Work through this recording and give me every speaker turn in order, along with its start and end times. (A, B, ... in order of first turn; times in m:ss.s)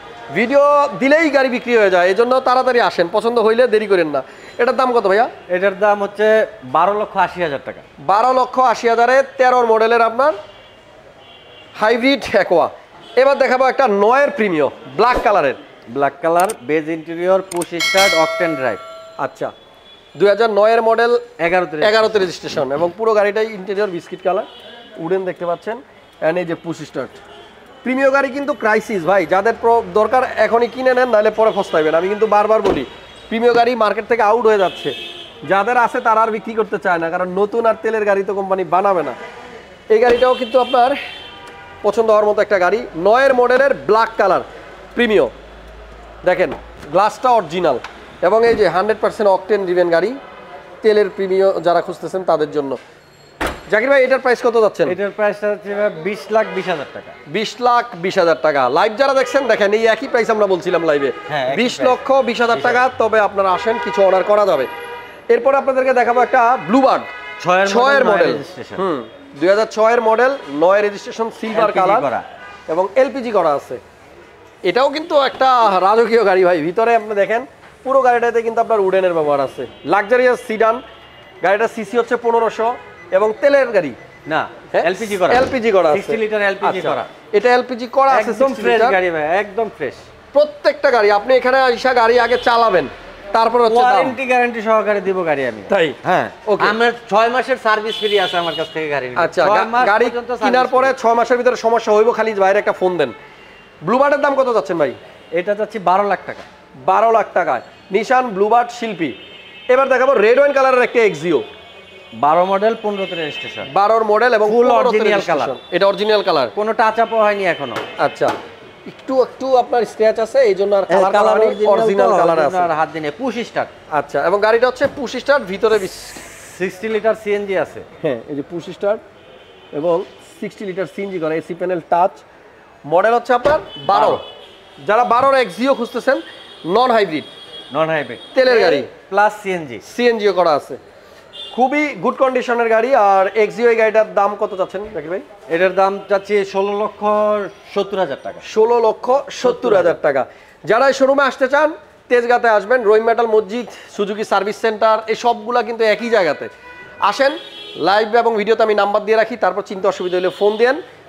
0:00.3-0:05.3 A
0:05.5-0:07.8 B
0:08.0-0:10.4 A
0:11.7-0:15.6 A
0:15.9-0:18.8 B
0:19.2-0:19.5 A
0:20.2-0:21.2 A
0:21.4-0:22.6 B
0:21.8-0:24.5 A
0:25.0-0:27.2 A
0:27.8-0:34.9 A
0:35.5-0:39.2 A
0:39.9-0:41.0 A
0:41.8-0:45.3 A
0:46.2-0:50.2 A
0:50.8-0:52.8 A
0:53.7-0:55.0 A
0:54.8-0:57.1 B
0:57.3-1:04.7 A
1:01.3-1:02.0 B
1:02.5-1:02.8 B
1:05.3-1:07.1 A
1:07.4-1:08.8 B
1:07.6-1:12.1 A
1:11.5-1:12.2 B
1:12.7-1:13.8 A
1:14.6-1:20.8 A
1:21.4-1:24.0 A
1:24.2-1:27.1 B
1:24.7-1:29.0 A
1:28.1-1:30.0 B
1:30.3-1:34.2 A
1:33.6-1:41.0 B
1:35.7-1:36.8 A
1:39.2-1:43.1 A
1:43.8-1:45.0 A
1:45.3-1:46.4 B
1:46.8-1:49.1 A
1:49.7-1:51.4 A
1:52.2-1:53.7 B
1:53.7-1:56.5 A
1:54.4-1:55.5 B
1:56.5-1:57.8 B
1:58.0-1:58.3 A
1:58.9-2:02.7 A
2:00.9-2:03.7 B
2:03.9-2:06.1 A
2:06.1-2:07.8 B
2:08.0-2:09.0 A
2:09.7-2:12.2 A
2:12.9-2:14.2 A
2:13.9-2:14.2 B
2:14.8-2:17.3 A
2:17.7-2:19.8 B
2:18.3-2:18.9 A
2:19.8-2:20.8 A
2:21.5-2:25.2 A
2:25.5-2:28.4 B
2:28.4-2:36.5 A
2:29.4-2:30.0 B
2:37.0-2:40.8 A